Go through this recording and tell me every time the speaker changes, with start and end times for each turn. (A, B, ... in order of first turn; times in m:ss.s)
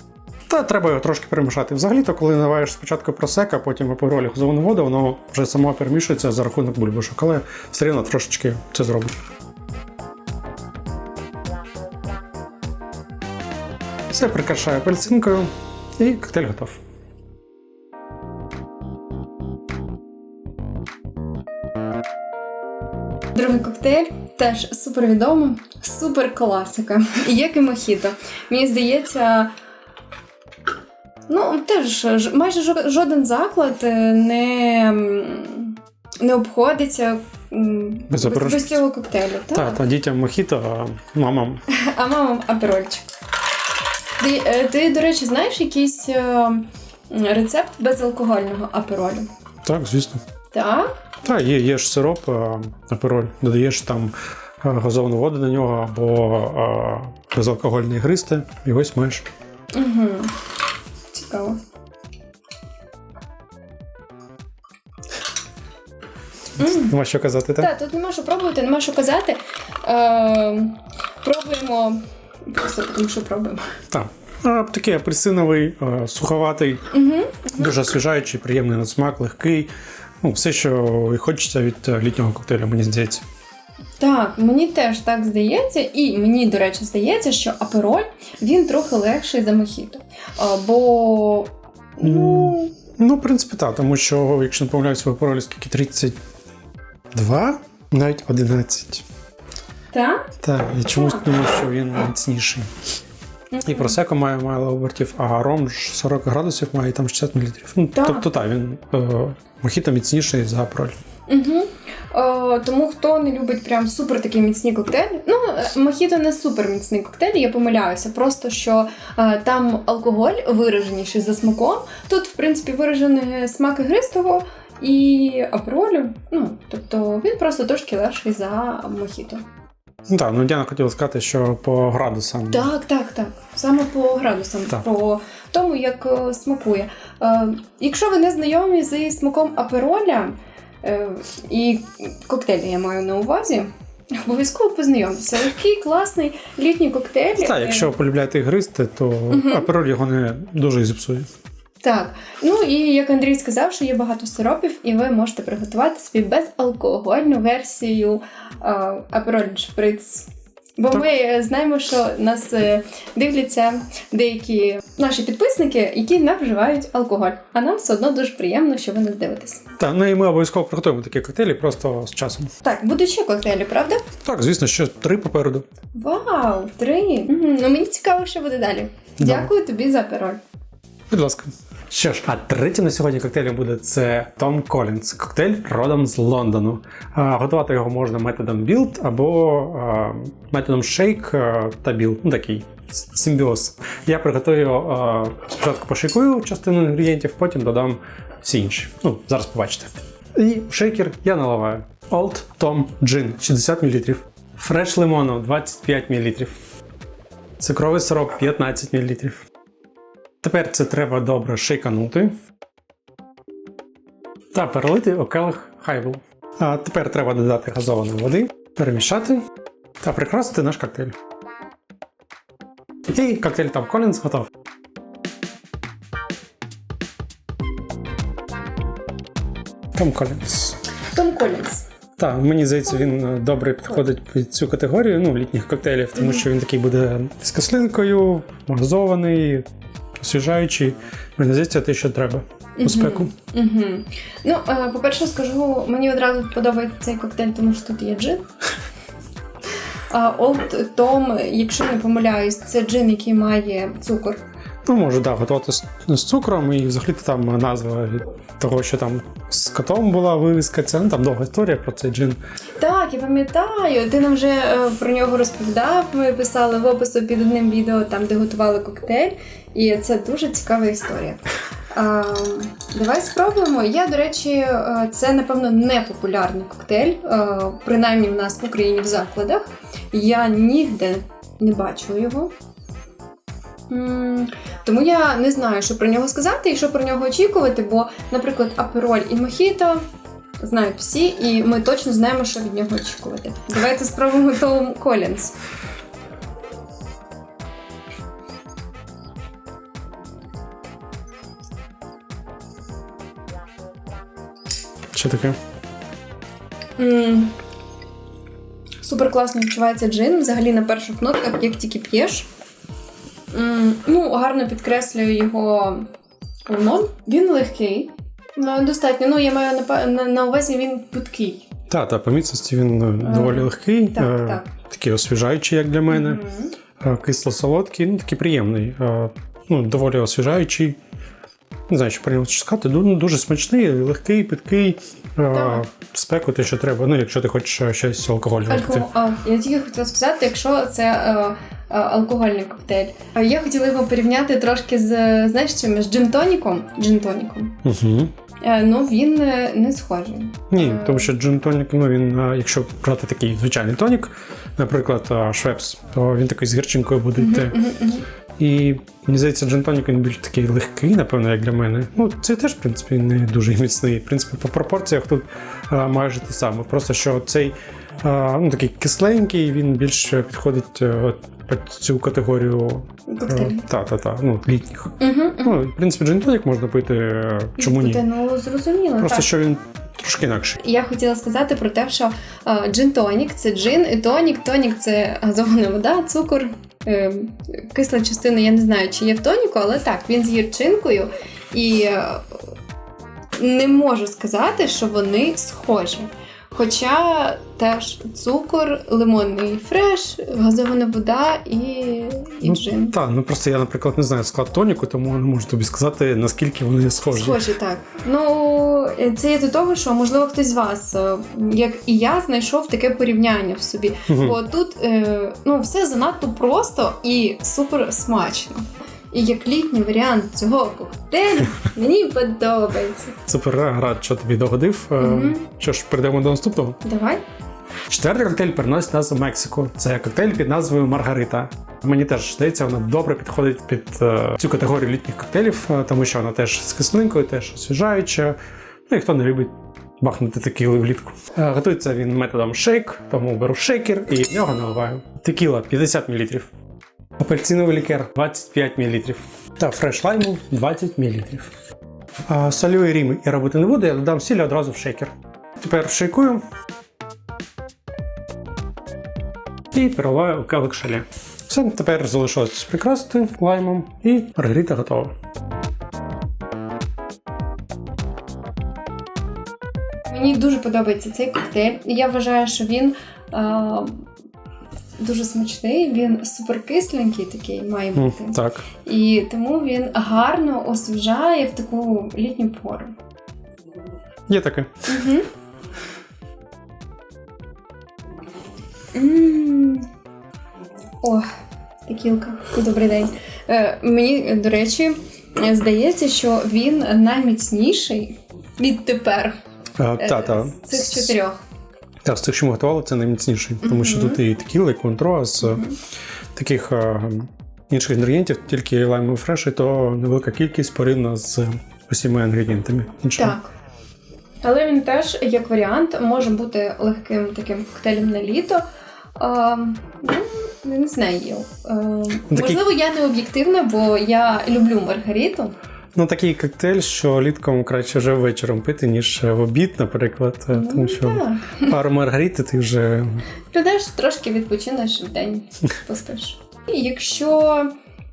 0:00.5-0:09.1 A
0:14.1-0:16.8 A
0:23.3-0:29.5 B
0:31.3-0:39.8 B
0:38.1-0:38.8 A
0:39.5-0:41.6 A
0:41.7-0:43.1 B
0:44.2-0:49.3 B
0:49.6-0:50.2 A
0:50.5-0:50.9 B
0:51.2-0:59.3 A
0:59.7-1:00.3 B
1:01.1-1:01.6 B
1:06.6-1:07.0 B
1:06.6-1:07.7 A
1:07.6-1:13.7 B
1:13.9-1:16.9 A
1:16.9-1:17.8 B
1:17.5-1:19.7 A
1:20.2-1:23.2 A
1:24.0-1:32.7 B
1:32.0-1:36.2 A
1:37.1-1:39.0 A
1:39.9-1:40.3 B
1:40.4-1:42.7 A
1:40.9-1:41.2 B
1:43.5-1:44.0 B
1:43.6-1:51.0 A
1:48.0-1:48.3 B
1:51.3-2:09.4 B
2:10.1-2:12.7 A
2:12.5-2:27.9 B
2:27.4-2:31.3 A
2:29.3-2:29.7 B
2:31.8-2:49.6 B
2:49.8-2:52.5 A
2:52.6-2:54.0 B
2:54.2-2:55.7 A
2:56.0-3:00.4 B
2:59.2-2:59.5 A
3:01.1-3:26.5 A
3:27.6-3:29.4 A
3:30.4-3:32.3 A
3:34.5-3:39.5 A
3:40.0-3:41.2 A
3:43.1-3:44.5 A
3:49.9-3:50.8 A
3:51.1-3:51.9 B
3:52.2-3:59.6 A
3:56.2-3:56.4 B
4:00.2-4:03.3 A
4:02.8-4:08.4 B
4:10.1-4:14.4 B
4:14.9-4:22.4 A
4:22.8-4:31.4 B
4:31.9-4:42.5 B
4:43.9-4:50.0 B
4:50.6-4:55.6 B
5:05.1-5:05.6 A
5:07.0-5:07.6 B
5:09.0-5:12.5 B
5:13.5-5:16.1 B
5:16.7-5:21.7 B
5:21.9-5:26.4 A
5:23.2-5:24.6 B
5:26.1-5:26.7 B
5:27.0-5:31.0 A
5:31.9-5:39.1 A
5:35.5-5:35.8 B
5:38.7-5:47.8 B
5:47.8-5:48.3 A
5:48.6-5:51.3 B
5:50.7-5:57.8 A
5:57.4-5:58.3 B
5:58.6-6:18.2 A
6:13.3-6:13.8 B
6:15.2-6:15.8 B
6:17.8-6:19.5 B
6:19.2-6:20.8 A
6:20.8-6:32.7 B
6:33.6-6:43.2 B
6:42.6-6:47.6 A
6:47.3-7:03.3 B
6:54.3-6:54.6 A
7:03.5-7:07.0 A
7:05.2-7:05.6 B
7:07.0-7:07.4 B
7:08.1-7:18.6 A
7:19.1-7:26.7 A
7:27.4-7:31.7 A
7:32.5-7:36.6 A
7:39.9-7:45.3 A
7:50.3-7:54.2 B
7:55.2-8:03.1 B
7:58.2-7:58.9 A
8:04.5-8:05.1 A
8:05.1-8:05.5 B
8:09.1-8:10.1 B
8:12.1-8:19.6 B
8:20.0-8:21.3 A
8:20.2-8:21.6 B
8:22.2-8:25.8 A
8:23.8-8:24.4 B
8:25.6-8:26.0 B
8:26.6-8:33.6 A
8:33.4-8:33.7 B
8:34.6-8:38.8 B
8:39.4-8:45.8 B
8:42.5-8:42.8 A
8:46.2-8:53.5 A
8:50.7-8:52.0 B
8:53.7-8:57.9 B